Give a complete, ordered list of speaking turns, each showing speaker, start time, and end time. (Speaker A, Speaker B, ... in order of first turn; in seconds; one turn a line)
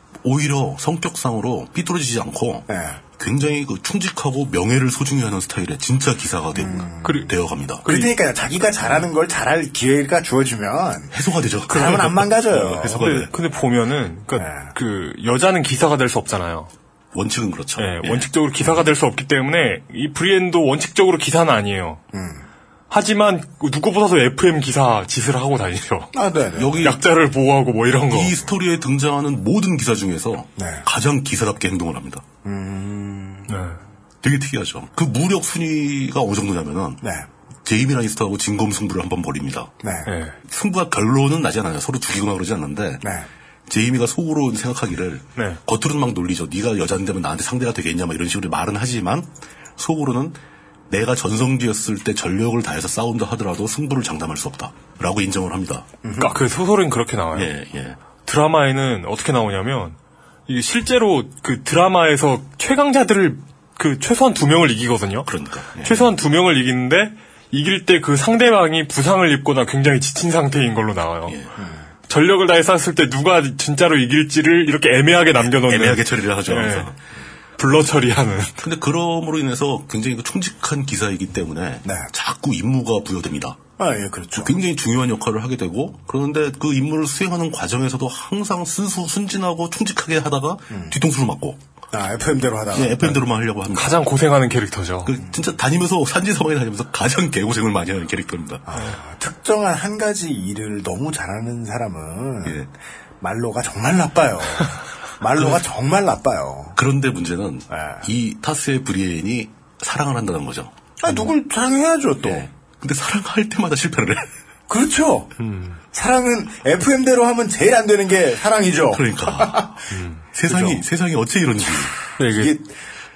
Speaker A: 0.2-2.7
Speaker B: 2.7-3.0
Speaker A: 3.2-7.9
Speaker B: 6.5-7.3
Speaker C: 7.0-7.3
Speaker C: 7.8-8.1
Speaker B: 7.8-11.1
Speaker A: 11.1-13.3
Speaker B: 11.7-13.1
Speaker C: 12.9-16.7
Speaker B: 14.4-14.7
Speaker A: 17.1-18.3
Speaker C: 17.8-22.0
Speaker B: 22.1-22.5
Speaker C: 22.9-26.1
Speaker B: 26.1-26.9
Speaker A: 26.6-27.0
Speaker C: 26.8-28.4
Speaker A: 28.1-32.2
Speaker B: 30.6-30.9
Speaker B: 32.4-33.5
Speaker C: 33.5-33.8
Speaker A: 34.2-37.0
Speaker B: 37.0-37.3
Speaker A: 37.6-39.7
Speaker B: 39.8-40.1
Speaker C: 40.1-40.4
Speaker A: 40.5-43.0
Speaker B: 43.0-43.3
Speaker A: 43.7-50.4
Speaker A: 50.9-55.9
Speaker B: 56.0-56.4
Speaker C: 56.2-57.5
Speaker A: 57.3-58.0
Speaker C: 58.3-60.0
Speaker C: 60.5-65.3
Speaker A: 65.3-66.1
Speaker C: 65.8-71.4
Speaker B: 71.6-71.9
Speaker C: 72.1-76.9
Speaker A: 75.4-77.0
Speaker C: 77.6-78.5
Speaker A: 78.6-83.6
Speaker B: 83.8-84.5
Speaker A: 84.4-91.6
Speaker B: 90.7-91.0
Speaker B: 91.9-93.2
Speaker A: 92.7-94.0
Speaker C: 93.7-95.1
Speaker A: 95.0-98.7
Speaker B: 98.7-102.6
Speaker B: 103.2-106.8
Speaker A: 106.8-110.7
Speaker B: 107.7-108.1
Speaker B: 111.0-112.5
Speaker A: 112.2-114.3
Speaker B: 114.7-115.3
Speaker C: 115.4-115.8
Speaker B: 115.9-119.7
Speaker A: 118.9-119.8
Speaker C: 119.9-120.7
Speaker A: 120.3-122.0
Speaker C: 122.2-122.6
Speaker B: 122.3-122.8